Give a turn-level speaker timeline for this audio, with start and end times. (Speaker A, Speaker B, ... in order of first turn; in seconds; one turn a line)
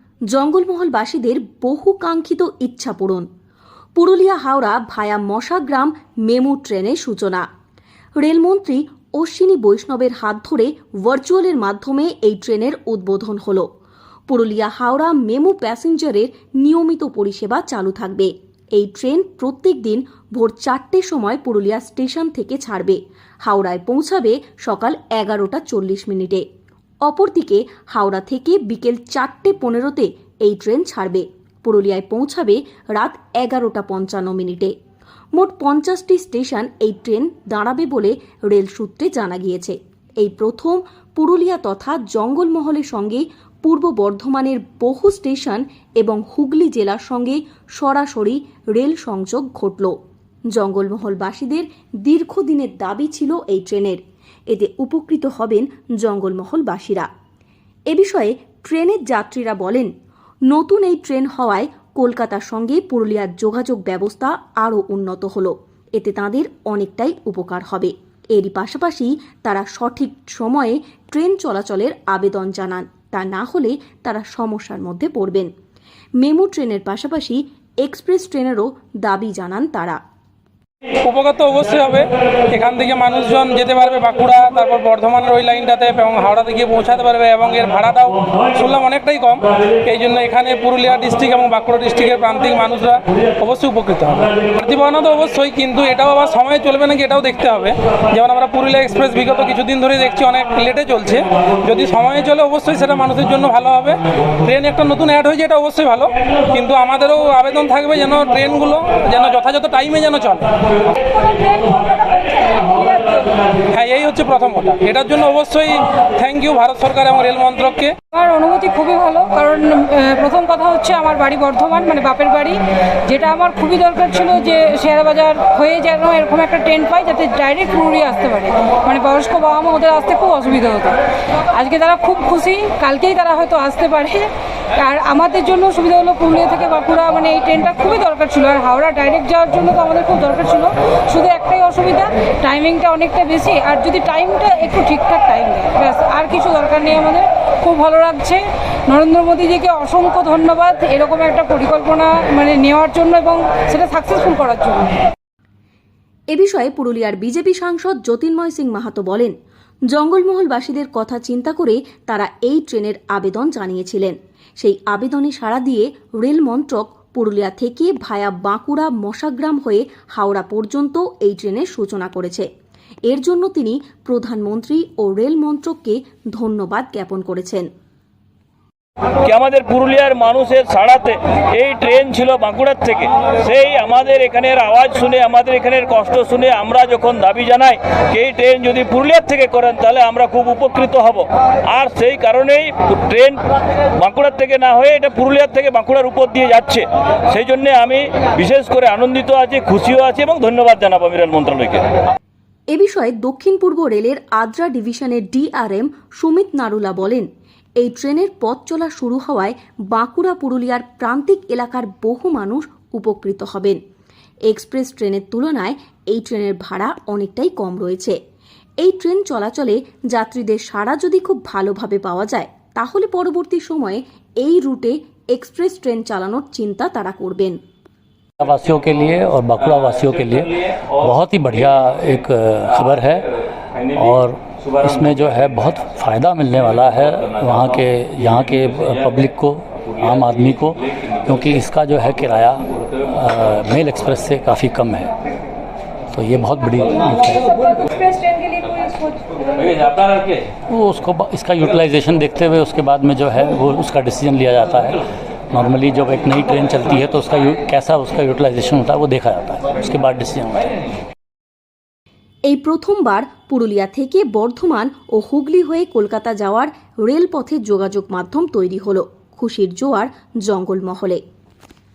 Speaker A: 0.3-3.2
Speaker A: 4.0-7.4
Speaker A: 8.2-13.7
Speaker A: 14.3-26.4
Speaker A: 27.0-34.7
Speaker A: 35.4-49.9
Speaker A: 50.5-57.1
Speaker A: 57.9-59.9
Speaker A: 60.5-75.5
Speaker A: 76.2-80.0
Speaker B: 81.0-110.5
Speaker C: 111.1-113.4
Speaker B: 113.7-118.0
Speaker C: 118.1-131.0
Speaker C: 131.5-154.9
Speaker A: 156.3-159.3
Speaker A: 159.9-172.5
Speaker A: 173.1-177.7
Speaker D: 179.2-193.4
Speaker D: 194.0-201.9
Speaker A: 202.7-207.3
Speaker A: 207.8-213.8
Speaker A: 214.5-218.2
Speaker A: 218.8-227.6
Speaker E: 228.4-233.3
Speaker E: 233.8-245.1
Speaker E: 246.1-247.6
Speaker C: 247.7-249.4
Speaker E: 250.7-260.7
Speaker A: 262.5-271.2